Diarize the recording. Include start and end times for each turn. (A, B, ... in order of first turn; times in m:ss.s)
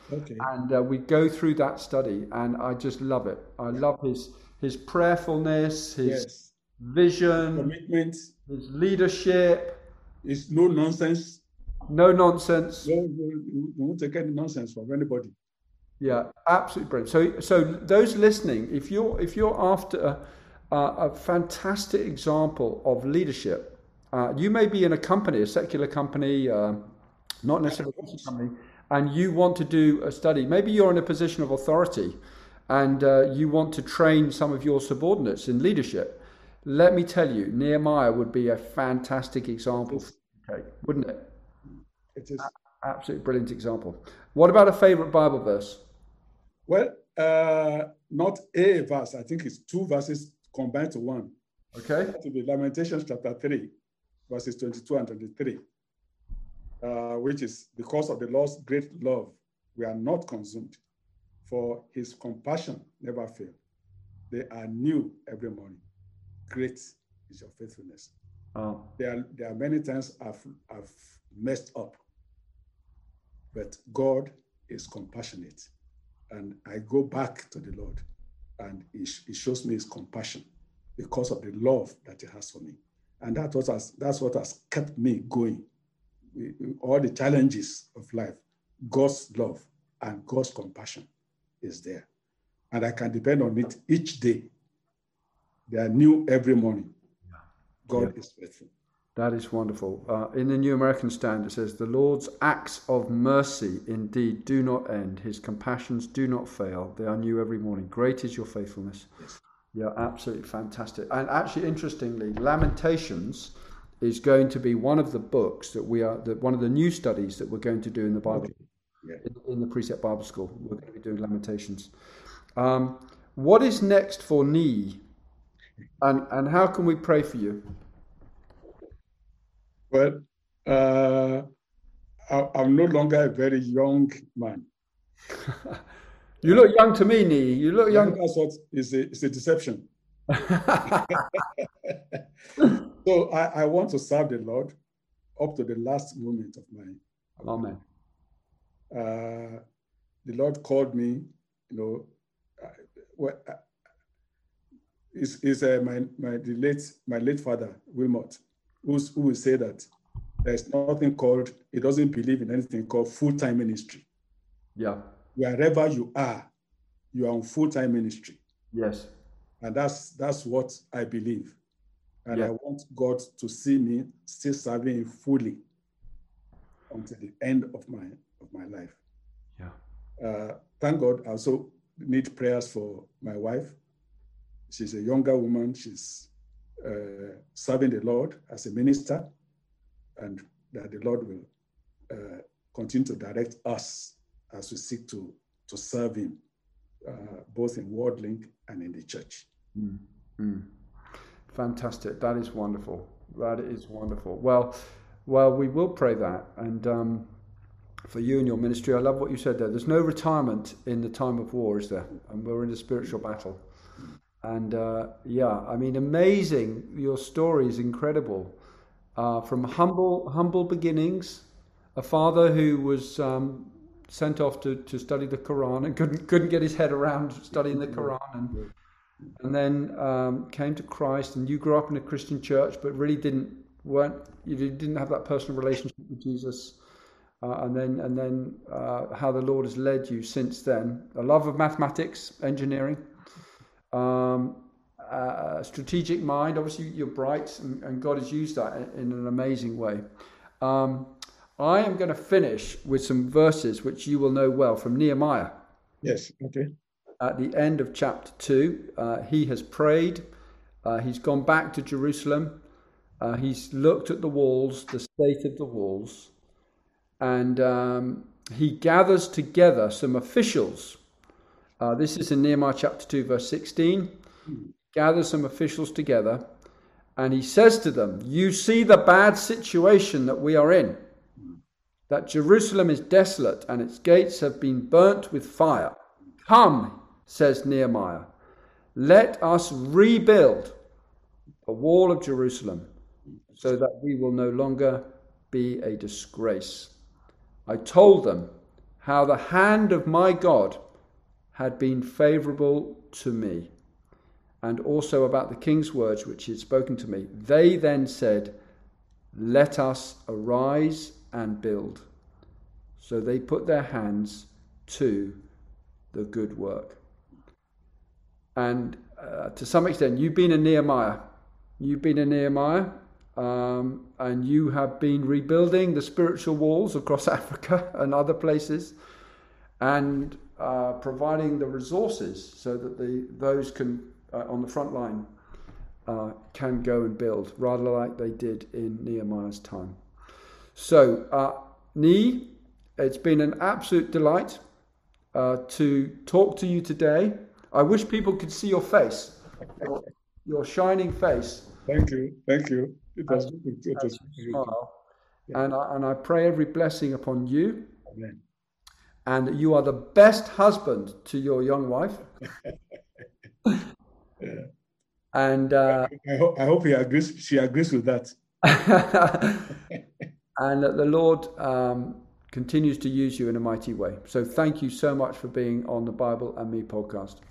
0:00.1-0:00.5 A
0:00.4-0:06.3 B
0:06.0-0:06.5 A
0:06.8-0:07.7 B
0:07.5-0:08.3 A
0:08.5-0:09.8 B
0:10.2-0:11.4 A
0:11.9-0:12.9 B
0:12.8-0:15.4 A
0:16.0-0:26.9 B
0:27.4-0:32.2 B
0:27.7-0:28.3 A
0:32.7-0:41.3 B
0:42.2-0:42.5 A
0:42.4-0:45.8 B
0:46.7-0:51.3 A
0:51.7-0:52.1 B
0:52.1-0:53.7 A
0:54.3-0:55.6 A
0:56.8-1:00.8 A
1:01.4-1:03.6 A
1:04.3-1:05.8 A
1:06.5-1:08.1 A
1:08.6-1:08.9 B
1:09.0-1:12.0 A
1:13.5-1:15.7 A
1:16.3-1:18.0 A
1:18.6-1:20.5 A
1:21.0-1:25.7 A
1:26.3-1:31.1 A
1:31.6-1:32.1 A
1:32.7-1:34.5 A
1:35.7-1:36.9 A
1:37.9-1:38.7 A
1:39.2-1:49.1 B
1:49.7-1:58.5 B
1:58.3-1:59.2 A
1:59.2-2:01.9 B
2:02.6-2:05.0 B
2:06.0-2:07.6 B
2:09.9-2:11.5 A
2:12.3-2:14.7 A
2:15.5-2:15.7 B
2:16.4-2:18.2 B
2:17.9-2:19.9 A
2:20.3-2:21.4 B
2:21.1-2:22.2 A
2:23.0-2:24.8 A
2:25.4-2:27.7 A
2:27.4-2:27.8 B
2:28.9-2:29.6 A
2:30.2-2:33.6 A
2:35.1-2:39.9 A
2:40.4-2:44.1 A
2:45.4-2:46.5 A
2:47.1-2:48.4 A
2:48.7-2:49.1 B
2:49.6-2:51.6 A
2:52.3-2:55.6 A
2:56.9-2:59.0 A
3:00.2-3:03.8 A
3:04.7-3:06.3 A
3:06.8-3:09.3 A
3:10.2-3:11.5 A
3:12.1-3:16.4 A
3:17.0-3:19.5 A
3:19.8-3:20.7 B
3:21.5-3:27.3 B
3:28.1-3:33.6 B
3:34.4-3:38.6 B
3:39.2-3:48.6 B
3:47.5-3:48.7 A
3:49.4-3:56.8 B
3:57.4-4:03.0 B
4:03.9-4:10.0 B
4:10.6-4:15.5 B
4:16.0-4:16.7 A
4:17.2-4:20.3 B
4:20.8-4:22.6 B
4:23.2-4:26.3 B
4:27.2-4:31.0 B
4:31.8-4:34.1 B
4:34.9-4:36.4 B
4:37.2-4:41.0 B
4:42.1-4:48.3 B
4:49.0-4:50.8 B
4:51.7-4:52.9 B
4:53.6-4:57.0 B
4:57.7-4:58.5 B
4:59.0-5:00.9 B
5:01.5-5:03.7 B
5:04.6-5:08.6 B
5:09.3-5:12.1 B
5:13.0-5:15.4 B
5:16.1-5:17.0 B
5:18.6-5:21.2 B
5:21.8-5:29.0 B
5:29.8-5:35.3 B
5:36.1-5:40.0 B
5:40.8-5:44.6 B
5:45.3-5:51.7 B
5:51.9-5:54.8 A
5:53.3-5:55.0 B
5:55.5-5:58.0 B
5:58.1-5:58.4 A
5:59.3-6:02.3 B
6:04.4-6:04.7 A
6:05.3-6:06.1 B
6:05.9-6:08.4 A
6:08.6-6:09.8 B
6:10.6-6:17.4 B